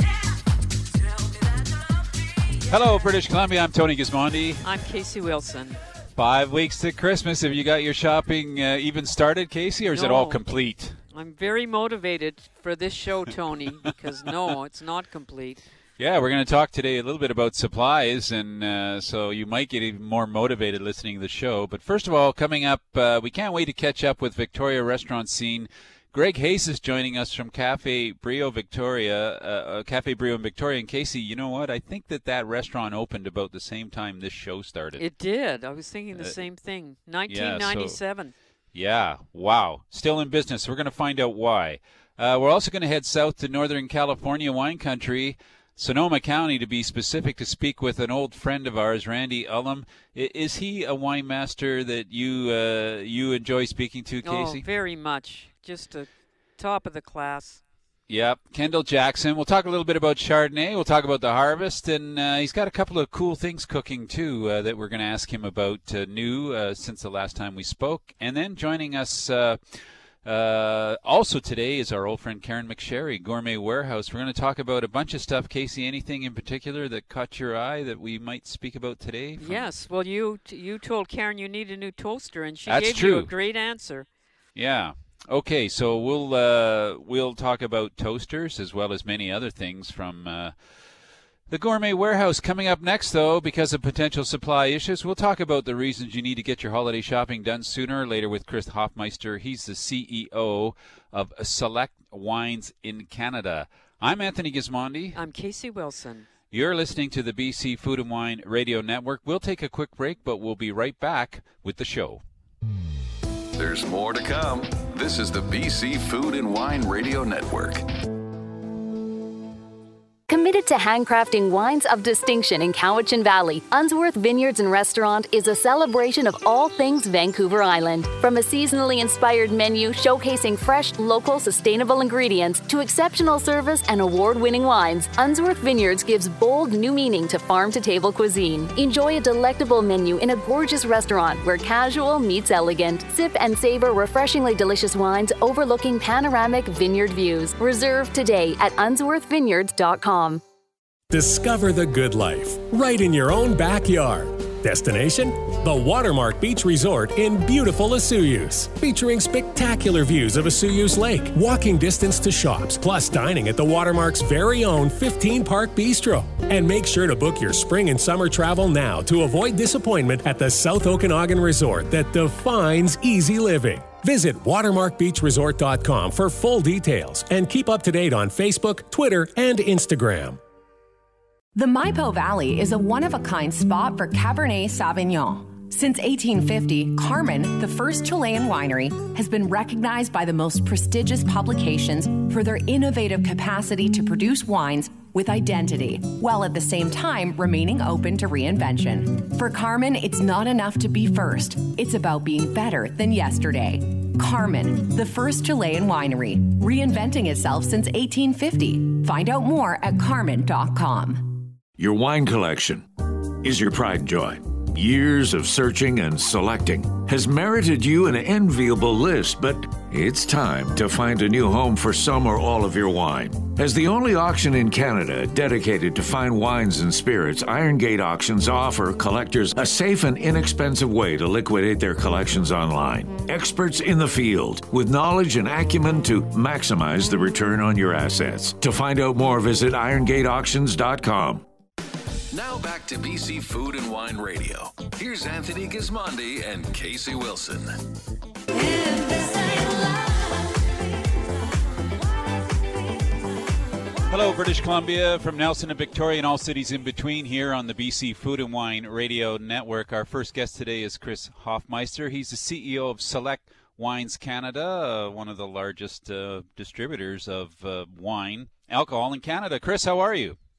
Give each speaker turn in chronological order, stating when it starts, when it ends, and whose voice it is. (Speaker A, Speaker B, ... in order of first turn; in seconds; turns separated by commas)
Speaker A: 2.7-4.7, Speaker B: 4.6-5.8, Speaker A: 6.2-11.0, Speaker B: 9.9-10.4, Speaker B: 11.1-15.7, Speaker A: 16.0-35.0, Speaker B: 35.0-38.3, Speaker A: 37.3-38.0, Speaker A: 38.7-54.6, Speaker B: 54.2-57.6, Speaker A: 58.1-79.7, Speaker B: 79.4-84.1, Speaker A: 82.7-83.3, Speaker A: 84.5-90.5, Speaker A: 91.5-105.2, Speaker B: 105.1-106.3, Speaker A: 106.5-112.2, Speaker C: 113.6-117.8, Speaker D: 120.3-150.4, Speaker E: 151.1-180.4, Speaker F: 181.5-211.4, Speaker G: 211.8-212.9, Speaker G: 213.4-241.4, Speaker C: 242.3-247.8, Speaker A: 254.1-270.4